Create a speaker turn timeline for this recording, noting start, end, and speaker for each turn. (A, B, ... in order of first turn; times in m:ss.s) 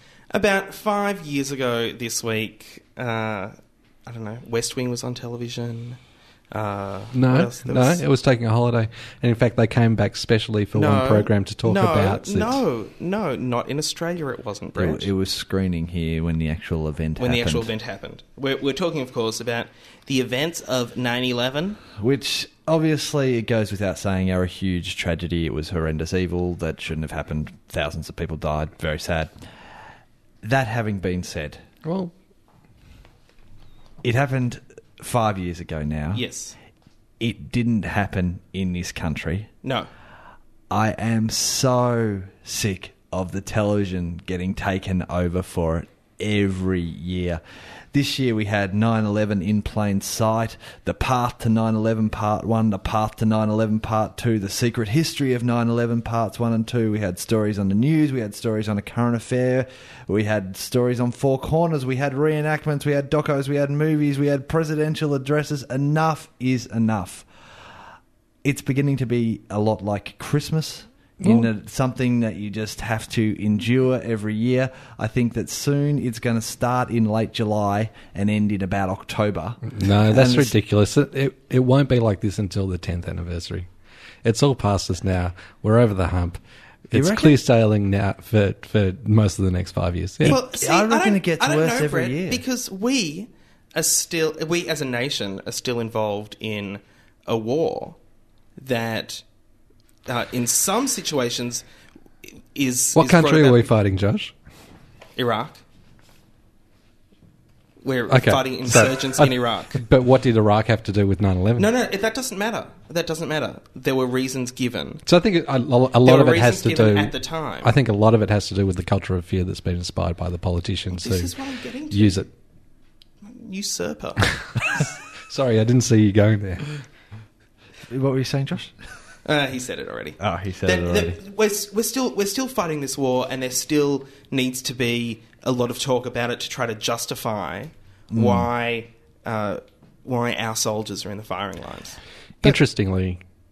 0:00.3-0:03.5 A
0:04.0-0:06.0 A
0:06.5-0:08.0 A
0:07.1-0:12.6 B
0:10.7-0:15.1 A
0:14.8-0:17.7 C
0:17.2-0:21.8 A
0:21.9-0:29.3 C
0:30.4-0:31.6 C
0:31.8-0:32.1 B
0:34.0-0:36.2 C
0:36.1-0:36.5 A
0:37.2-0:39.5 C
0:39.6-0:39.9 A
0:40.7-0:47.4 C
0:47.9-1:07.3 C
1:08.4-1:20.5 C
1:11.2-1:11.5 B
1:19.7-1:23.7 B
1:24.2-1:30.4 B
1:26.9-1:27.4 C
1:30.2-1:32.4 C
1:30.2-1:38.0 A
1:38.6-1:39.2 A
1:40.1-1:41.6 A
1:42.5-1:43.7 A
1:43.0-1:44.3 B
1:45.2-1:45.6 A
1:47.8-1:49.8 A
1:48.1-1:51.7 B
1:51.6-1:55.0 A
1:55.0-2:01.3 B
1:56.0-1:57.7 A
2:00.9-2:02.2 A
2:01.9-2:02.3 B
2:03.2-2:04.8 A
2:05.3-2:06.7 B
2:07.9-2:08.8 C
2:09.2-2:22.0 A
2:10.2-2:11.2 C
2:18.1-2:18.5 C
2:22.4-2:23.2 B